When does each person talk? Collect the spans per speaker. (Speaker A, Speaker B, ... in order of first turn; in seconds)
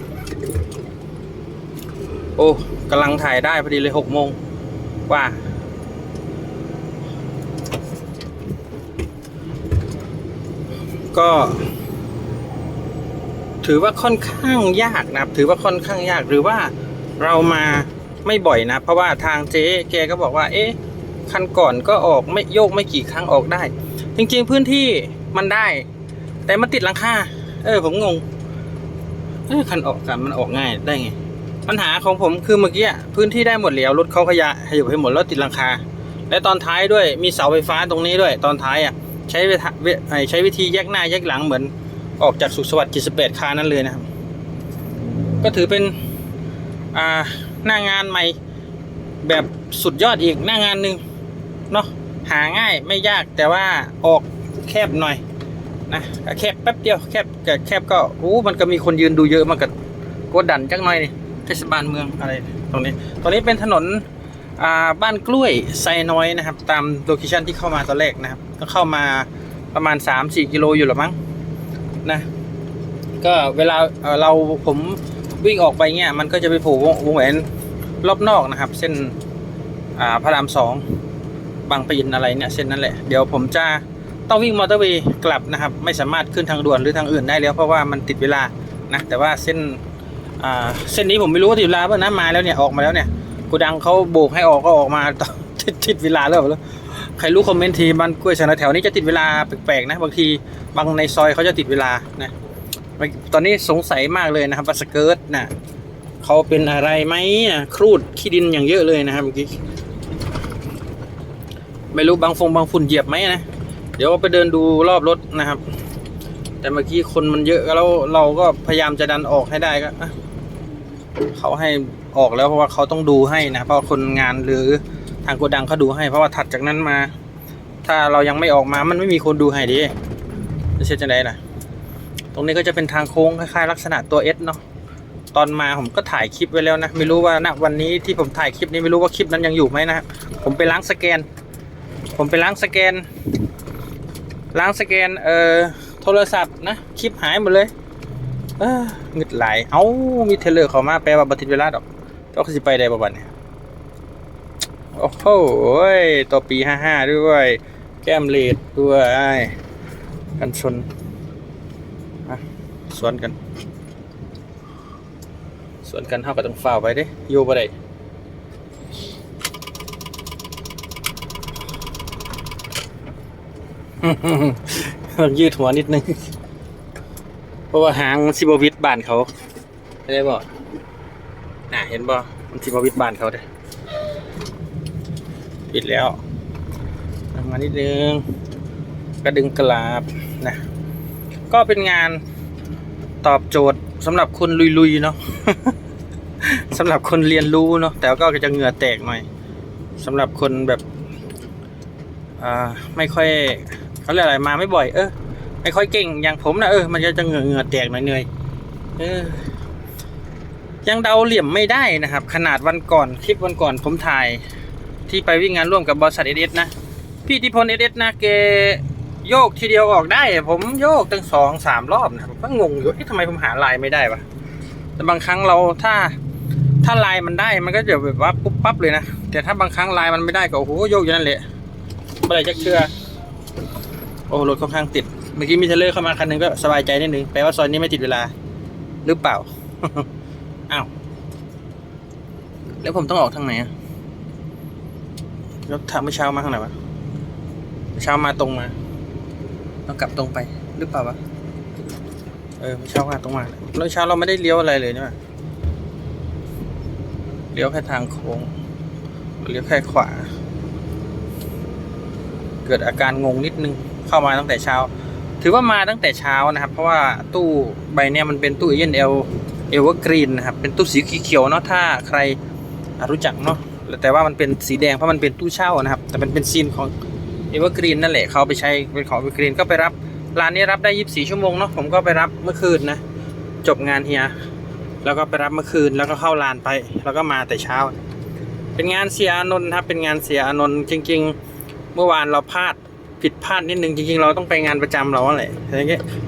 Speaker A: 2.4-4.4, 5.1-5.4, 11.1-11.6, 13.6-20.8, 21.3-25.9, 26.5-28.2, 29.5-44.0, 45.4-46.0, 46.9-48.4, 49.2-51.0, 51.7-55.2, 55.9-59.7, 60.3-64.0, 64.6-71.2, 73.2-77.5, 78.0-79.2, 80.0-80.8, 81.7-89.8, 90.4-102.3, 103.0-105.5, 106.2-109.6, 111.9-113.5, 114.0-115.6, 116.6-120.1, 121.3-127.1, 127.8-129.9, 130.8-131.4, 132.3-134.6, 135.3-141.3, 142.1-143.1, 144.5-147.7, 148.6-153.3, 154.9-159.6, 160.4-160.9, 162.3-163.4, 165.8-167.7, 174.0-176.2, 177.7-179.3, 180.1-180.5, 181.7-183.4, 185.7-186.2, 187.3-188.2, 189.2-190.6, 191.5-192.2, 193.2-195.8, 196.4-199.3, 200.0-200.8, 202.4-208.3, 209.0-209.5, 210.8-214.4, 215.1-216.7, 217.2-224.2, 225.0-226.2, 226.8-231.4, 232.2-232.9, 234.3-238.3, 239.1-240.1, 242.8-243.7, 245.7-246.7, 247.9-248.7, 249.9-251.2, 252.6-255.2, 257.5-258.5, 259.4-260.3, 262.6-272.4, 273.0-276.9, 277.5-283.0, 283.6-284.3, 285.0-287.9, 288.8-291.4, 291.9-296.0